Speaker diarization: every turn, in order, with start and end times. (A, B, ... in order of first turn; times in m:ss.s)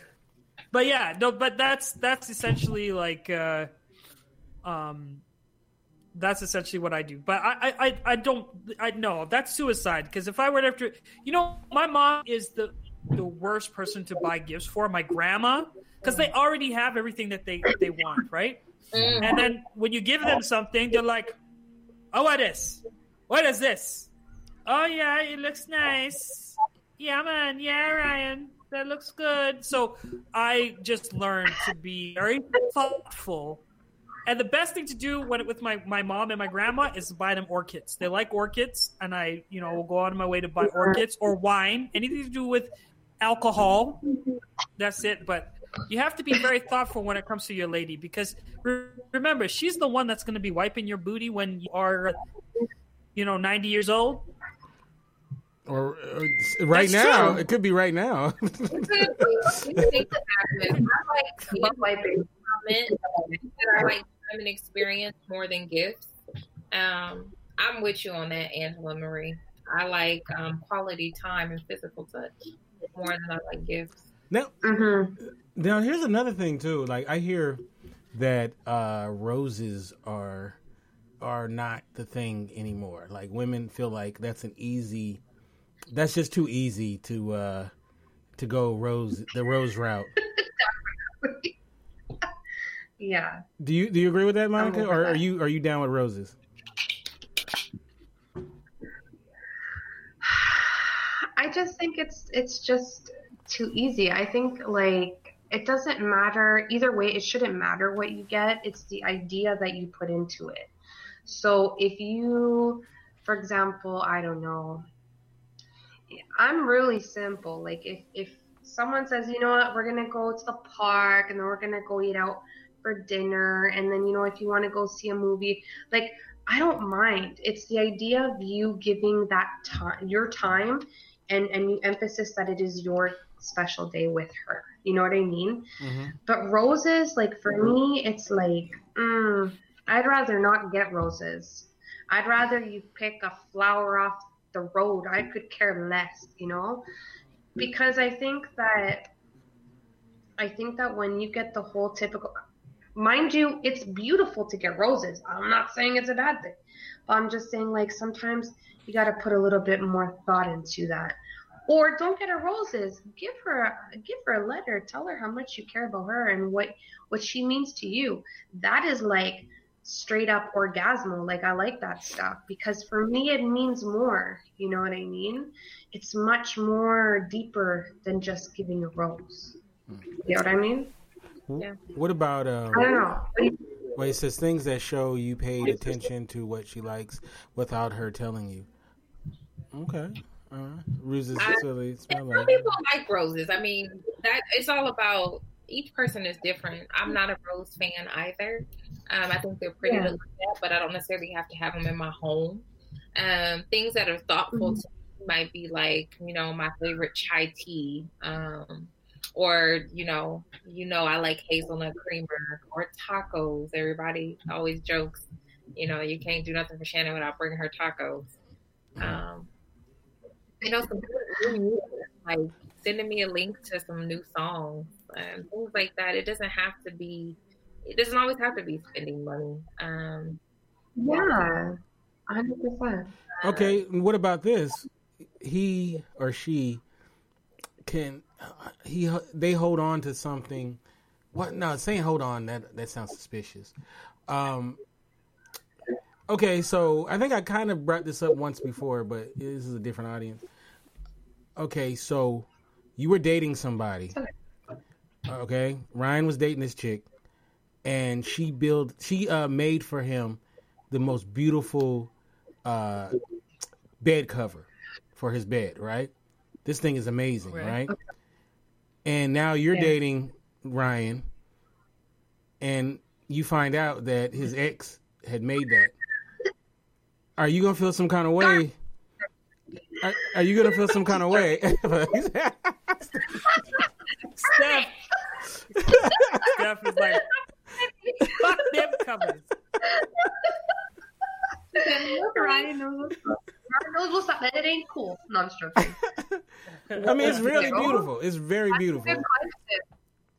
0:00.7-0:03.7 A
0:04.6-0:05.2 A
0:06.1-0:18.6 A
0:18.9-0:19.4 B
0:19.0-0:19.4 C
0:19.2-0:21.4 A
0:22.1-0:24.1 A
0:24.6-0:33.6 A
0:34.2-0:44.1 A
0:44.8-0:52.2 A
0:53.1-0:54.2 A
0:55.7-0:59.8 C
0:56.7-0:57.4 A
0:58.7-1:03.0 B
1:00.7-1:03.9 D
1:03.6-1:06.1 B
1:06.7-1:14.1 B
1:14.3-1:14.6 C
1:14.6-1:15.2 D
1:15.2-1:17.6 C
1:18.1-1:20.6 C
1:21.2-1:25.2 C
1:25.9-1:27.7 C
1:28.4-1:30.1 C
1:30.3-1:31.5 D
1:33.0-1:33.4 D
1:33.6-1:36.3 C
1:34.6-1:35.2 D
1:40.2-1:50.7 D
1:51.2-1:54.8 D
1:56.1-2:15.7 D
2:15.8-2:16.2 C
2:16.2-2:26.8 D
2:27.6-2:29.1 D
2:30.4-2:32.3 D
2:32.9-2:59.6 D
3:00.1-3:00.9 D
3:01.5-3:03.0 C
3:02.7-3:03.9 D
3:04.0-3:08.7 C
3:09.7-3:12.6 C
3:11.4-3:38.3 B
3:19.8-3:20.1 D
3:24.5-3:24.8 D
3:39.0-3:39.5 B
3:40.6-3:50.4 B
3:51.0-3:53.1 D
3:51.1-3:51.4 B
3:53.4-3:53.8 B
3:53.4-3:56.8 C
3:57.8-4:00.8 C
4:01.3-4:03.7 C
4:04.3-4:04.8 C
4:06.3-4:10.4 C
4:11.6-4:14.2 C
4:15.3-4:17.0 C
4:17.8-4:22.1 C
4:22.6-4:23.2 C
4:24.0-4:26.1 C
4:26.6-4:27.9 C
4:27.5-4:27.8 A
4:29.0-4:31.2 C
4:32.6-4:35.9 C
4:37.4-4:38.8 C
4:40.0-4:43.6 C
4:40.7-4:41.2 D
4:44.4-4:44.9 A
4:44.5-4:44.8 D
4:45.7-4:46.2 D
4:45.7-4:46.6 C
4:46.4-4:47.3 A
4:47.8-4:48.7 D
4:48.2-4:49.5 A
4:49.8-4:50.5 D
4:51.7-4:56.0 D
4:51.7-4:52.7 B
4:55.8-4:56.4 C
4:56.7-4:58.0 A
4:56.9-4:58.1 D
4:57.0-4:59.3 C
4:58.7-4:59.8 D